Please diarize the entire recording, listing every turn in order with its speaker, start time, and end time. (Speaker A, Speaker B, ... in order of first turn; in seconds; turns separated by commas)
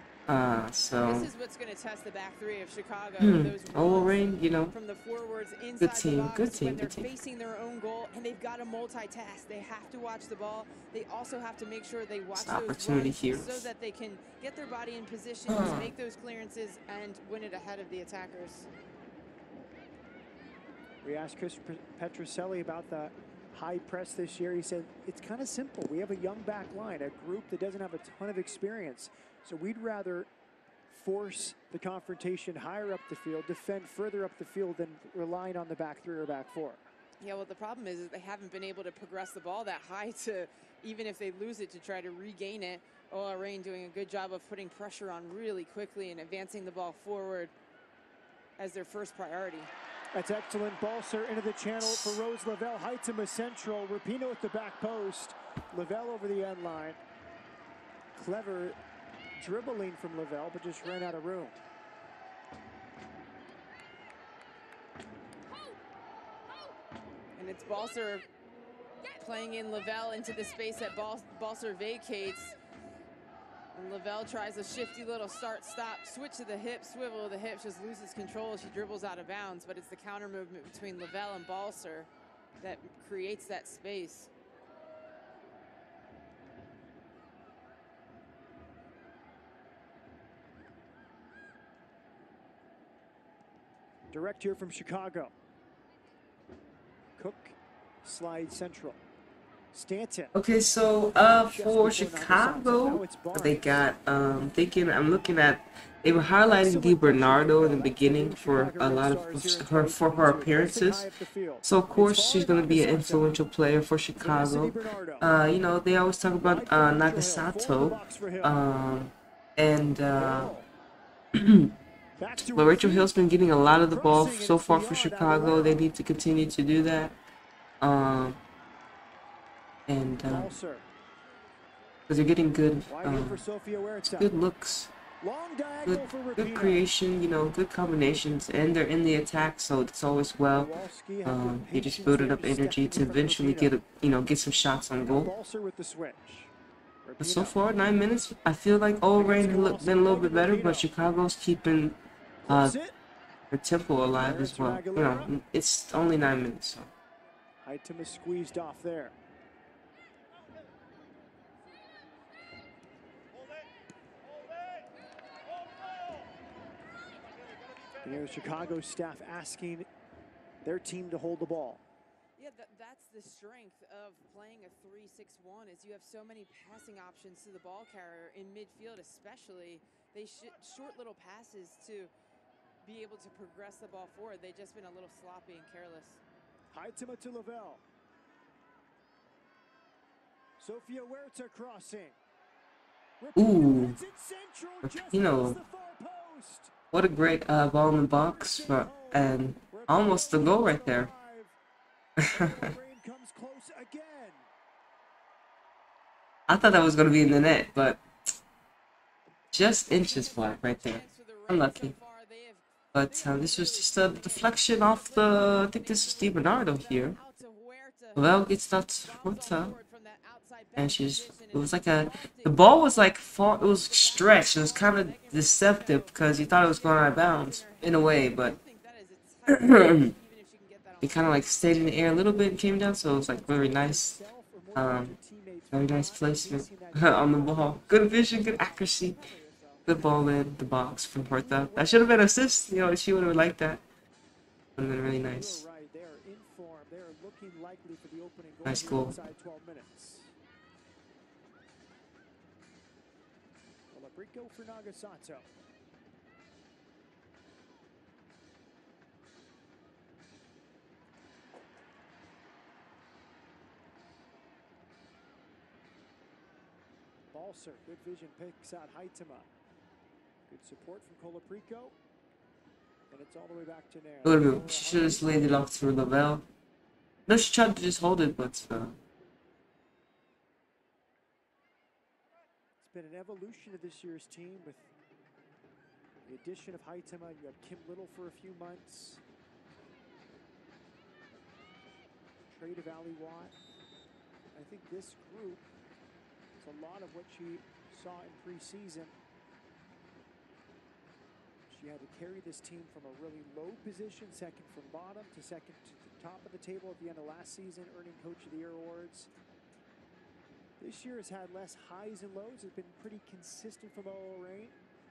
Speaker A: 0.3-1.3, Speaker B: 1.0-18.7, Speaker A: 3.2-4.7, Speaker A: 5.8-7.1, Speaker A: 12.3-13.7, Speaker A: 15.5-15.9, Speaker C: 21.0-30.3, Speaker C: 30.9-36.8, Speaker B: 37.2-47.5, Speaker B: 48.6-49.7, Speaker C: 50.1-57.0, Speaker A: 51.8-52.2, Speaker C: 58.1-58.8, Speaker C: 59.4-61.6, Speaker B: 67.3-68.2, Speaker B: 69.2-72.5, Speaker B: 73.7-82.1, Speaker B: 82.6-84.3, Speaker C: 94.1-95.3, Speaker C: 97.2-99.0, Speaker C: 99.7-100.3, Speaker A: 100.3-111.1, Speaker C: 101.4-103.8, Speaker C: 106.4-113.4, Speaker A: 111.6-120.5, Speaker C: 114.2-115.4, Speaker C: 116.4-118.6, Speaker C: 120.1-120.7, Speaker A: 121.3-121.8, Speaker C: 122.2-125.9, Speaker A: 122.5-127.1, Speaker A: 127.8-128.4, Speaker A: 129.9-130.5, Speaker C: 130.2-130.9, Speaker A: 132.1-133.4, Speaker C: 132.9-134.3, Speaker A: 134.0-134.9, Speaker C: 135.2-136.8, Speaker A: 135.8-140.7, Speaker C: 140.5-143.8, Speaker A: 141.2-145.3, Speaker C: 145.0-146.5, Speaker C: 147.0-147.6, Speaker A: 147.2-152.8, Speaker C: 149.1-150.9, Speaker C: 152.4-152.9, Speaker A: 153.5-156.9, Speaker C: 154.2-155.3, Speaker C: 157.6-159.1, Speaker C: 168.0-169.9, Speaker C: 170.6-171.8, Speaker B: 172.4-182.1, Speaker B: 182.8-186.2, Speaker C: 186.7-187.8, Speaker C: 190.6-192.2, Speaker C: 193.2-196.7, Speaker A: 193.3-194.0, Speaker A: 194.8-195.6, Speaker A: 196.9-201.1, Speaker C: 198.2-201.6, Speaker A: 202.2-202.7, Speaker C: 202.3-204.4, Speaker A: 206.5-208.0, Speaker A: 209.5-211.9, Speaker B: 209.8-231.6, Speaker A: 212.9-217.2, Speaker A: 218.1-219.8, Speaker A: 220.8-228.6, Speaker A: 229.5-230.1, Speaker A: 231.0-234.2, Speaker C: 233.1-238.4, Speaker A: 234.7-235.2, Speaker A: 235.7-239.2, Speaker B: 238.2-240.2, Speaker A: 239.8-243.8, Speaker C: 241.2-242.4, Speaker A: 244.8-245.6, Speaker C: 245.2-250.3, Speaker A: 248.6-249.2, Speaker C: 253.9-255.5, Speaker C: 267.3-269.5, Speaker C: 270.5-271.9, Speaker C: 273.1-275.6, Speaker A: 274.2-276.4, Speaker A: 277.3-279.0, Speaker C: 282.8-284.9, Speaker C: 286.2-289.2, Speaker C: 292.4-293.6, Speaker C: 294.5-295.7, Speaker C: 296.6-299.1, Speaker C: 301.7-309.3, Speaker C: 310.8-314.8